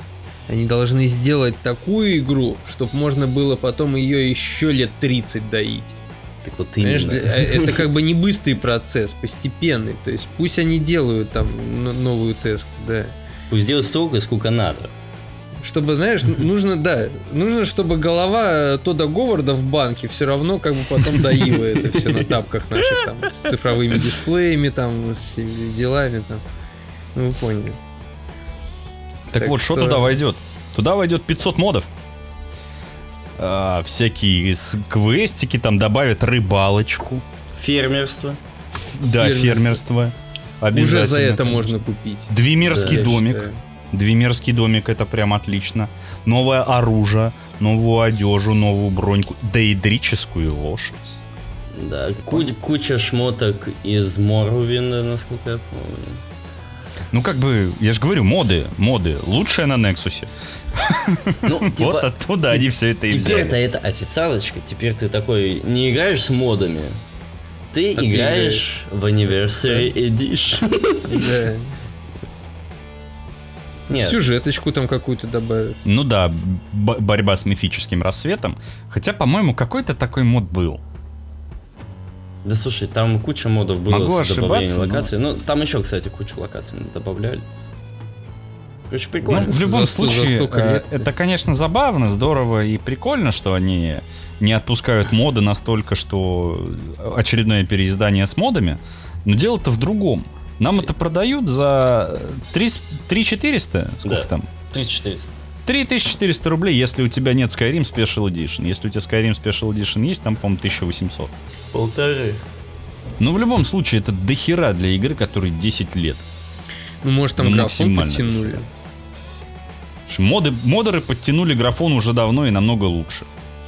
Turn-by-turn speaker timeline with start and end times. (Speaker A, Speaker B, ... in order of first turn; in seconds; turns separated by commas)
Speaker A: 0.5-6.0, Speaker B: 6.4-7.9, Speaker A: 6.8-13.1, Speaker B: 13.5-14.9, Speaker A: 15.6-26.4, Speaker A: 27.1-27.8, Speaker C: 29.3-31.9, Speaker A: 29.4-30.2, Speaker C: 33.4-37.2, Speaker B: 37.5-38.4, Speaker C: 38.9-41.8, Speaker A: 39.1-39.8, Speaker A: 40.7-43.6, Speaker C: 42.3-51.2, Speaker B: 42.7-43.1, Speaker B: 51.7-56.2, Speaker C: 57.1-63.6, Speaker B: 61.4-67.0, Speaker B: 67.7-71.3, Speaker A: 67.9-68.7, Speaker A: 69.6-69.9, Speaker A: 71.0-71.7, Speaker B: 73.9-74.2, Speaker A: 73.9-75.8, Speaker C: 75.8-80.8, Speaker B: 82.4-87.4, Speaker C: 83.9-85.1, Speaker B: 88.9-89.7, Speaker C: 89.2-104.5, Speaker A: 89.3-91.0, Speaker B: 104.0-105.3, Speaker C: 105.7-111.3, Speaker B: 111.7-112.4, Speaker C: 113.2-116.2, Speaker A: 117.0-118.7, Speaker C: 117.4-118.6, Speaker C: 120.1-123.3